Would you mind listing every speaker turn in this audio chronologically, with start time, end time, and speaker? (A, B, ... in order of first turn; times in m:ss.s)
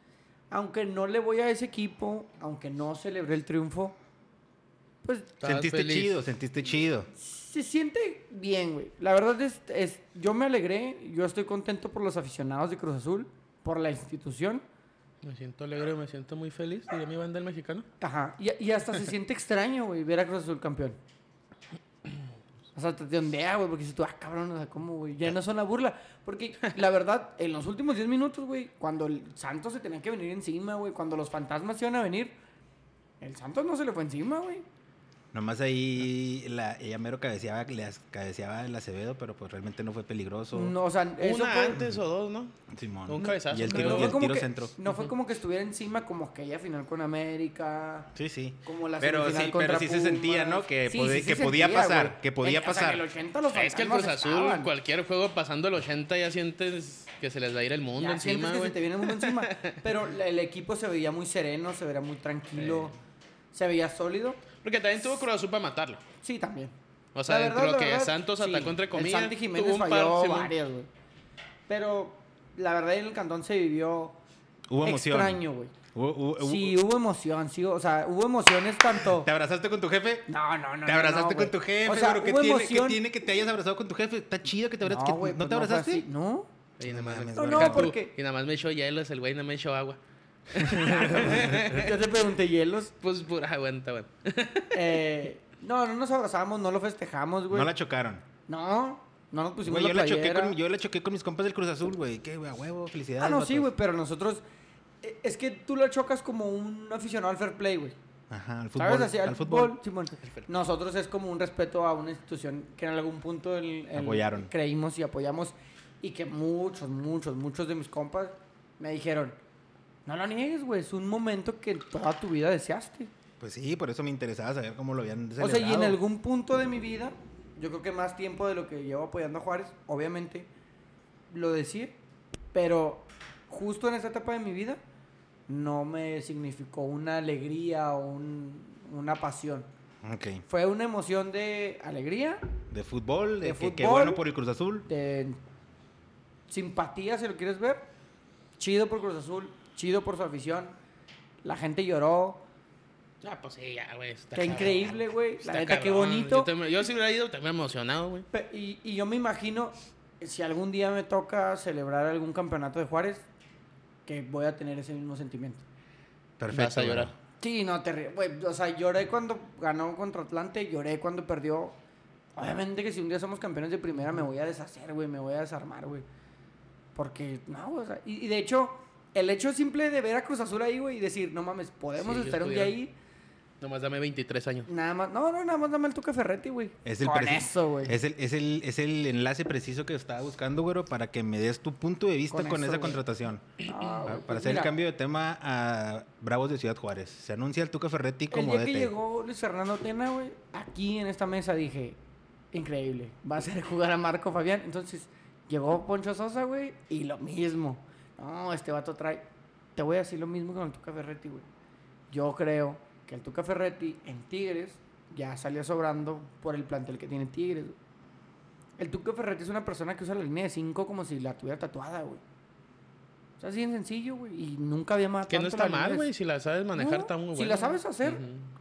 0:00.5-0:04.0 A
0:05.0-0:05.4 A
0:05.4-0:06.2 B
0:05.4-0:07.1 C
0:07.1-0:14.6 A
0:15.2-0:17.9 B
0:18.0-0:21.0 A
0:22.7-0:32.4 A
0:33.2-0:34.6 A
0:35.3-0:40.8 C
0:40.5-0:41.8 A
0:41.2-0:42.5 B
0:41.7-0:42.0 C
0:42.7-0:44.7 C
0:43.1-0:44.2 B
0:43.2-0:48.1 A
0:48.2-0:53.0 C
0:48.6-0:54.7 A
0:53.5-0:59.8 B
0:58.0-1:03.0 A
1:02.6-1:02.9 B
1:03.5-1:04.4 A
1:04.6-1:06.0 B
1:06.2-1:06.7 A
1:07.1-1:10.5 B
1:07.2-1:10.9 A
1:11.7-1:14.2 A
1:14.7-1:15.4 C
1:14.8-1:15.7 A
1:15.9-1:16.8 C
1:16.4-1:19.3 A
1:19.0-1:20.3 C
1:20.3-1:23.0 A
1:20.9-1:26.0 C
1:24.8-1:26.5 A
1:26.8-1:32.0 B
1:26.8-1:27.9 C
1:27.3-1:28.1 A
1:30.6-1:31.0 C
1:30.8-1:32.9 A
1:33.0-1:35.0 B
1:34.7-1:37.7 A
1:37.5-1:38.2 C
1:38.5-1:40.6 A
1:39.6-1:43.7 C
1:43.2-1:44.4 A
1:45.0-1:48.0 A
1:48.3-1:49.8 C
1:48.8-1:59.4 A
1:54.0-1:54.5 C
2:00.1-2:03.1 A
2:03.4-2:06.0 C
2:05.4-2:10.5 A
2:11.3-2:12.0 A
2:12.5-2:14.8 A
2:15.5-2:19.7 A
2:20.0-2:20.4 C
2:20.5-2:22.4 A
2:22.7-2:24.9 C
2:23.4-2:24.2 A
2:24.9-2:25.4 A
2:26.5-2:27.8 A
2:28.6-2:30.8 A
2:31.4-2:32.4 A
2:33.2-2:38.3 B
2:34.4-2:36.5 A
2:38.3-2:43.2 A
2:44.1-2:45.6 A
2:46.4-2:47.1 C
2:46.5-2:47.1 B
2:47.4-2:51.8 A
2:52.4-2:56.0 A
2:57.0-3:02.9 A
3:02.0-3:02.8 B
3:03.6-3:04.7 B
3:04.7-3:08.0 A
3:06.8-3:18.9 C
3:12.3-3:13.0 A
3:13.6-3:14.7 A
3:18.3-3:22.0 A
3:22.5-3:29.2 A
3:29.8-3:31.5 A
3:32.1-3:37.8 A
3:38.8-3:42.2 A
3:43.4-3:46.1 A
3:45.3-3:48.5 B
3:46.8-3:48.2 A